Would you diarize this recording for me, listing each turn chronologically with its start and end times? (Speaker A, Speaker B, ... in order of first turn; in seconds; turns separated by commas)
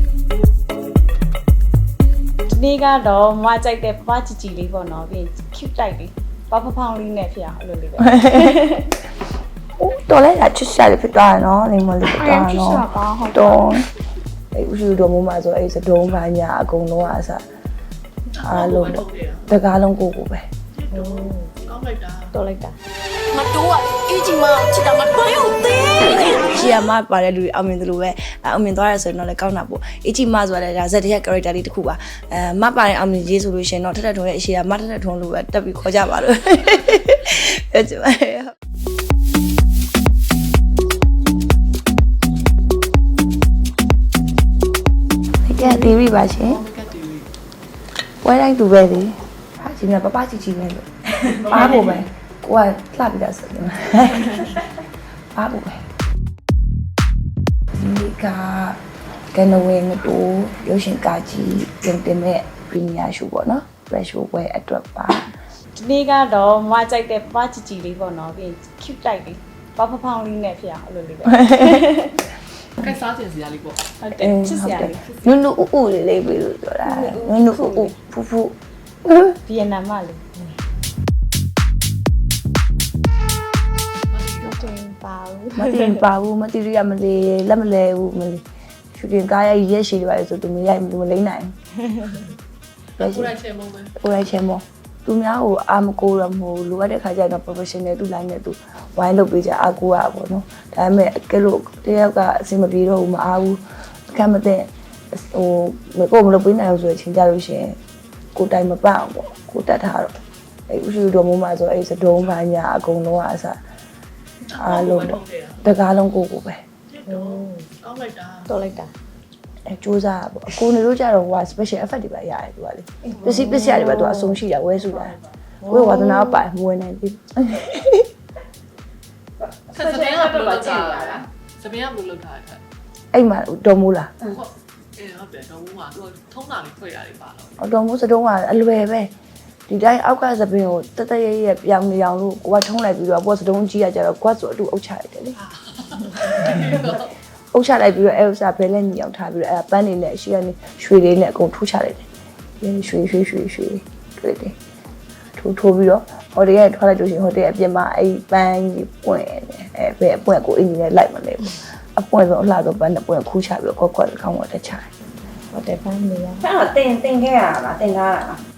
Speaker A: 2.5-8.9, Speaker B: 8.1-8.5, Speaker B: 9.8-13.9, Speaker A: 12.0-13.6, Speaker B: 14.5-17.4, Speaker C: 18.4-19.4, Speaker B: 18.4-20.4, Speaker C: 20.8-22.3, Speaker A: 20.9-21.5, Speaker A: 22.3-22.8, Speaker D: 23.3-26.5, Speaker B: 26.5-38.5, Speaker B: 45.5-46.6, Speaker C: 45.9-47.3, Speaker B: 48.2-54.7, Speaker C: 51.5-51.8, Speaker B: 55.3-55.8, Speaker B: 57.7-58.8, Speaker B: 59.3-65.3, Speaker A: 65.7-72.3, Speaker C: 72.8-73.9, Speaker A: 74.0-75.0, Speaker B: 74.2-79.4, Speaker A: 76.9-77.9, Speaker A: 79.4-80.2, Speaker C: 84.1-84.7, Speaker A: 84.4-86.0, Speaker B: 85.5-88.4, Speaker B: 88.9-91.5, Speaker C: 93.0-93.9, Speaker B: 93.0-93.3, Speaker B: 94.0-107.8, Speaker B: 108.3-110.1, Speaker B: 110.7-113.6, Speaker C: 114.5-115.6, Speaker B: 114.6-116.6, Speaker C: 116.9-118.5, Speaker A: 117.1-117.7, Speaker A: 118.5-118.9, Speaker B: 119.7-128.1, Speaker A: 123.1-124.4, Speaker A: 125.6-126.4, Speaker C: 129.7-132.6, Speaker B: 133.1-134.1, Speaker C: 134.2-137.5, Speaker B: 137.6-139.1, Speaker B: 139.7-145.4, Speaker C: 145.4-147.1, Speaker B: 147.5-152.1, Speaker B: 152.6-154.5, Speaker B: 155.3-164.9, Speaker A: 165.5-166.5, Speaker E: 166.4-168.4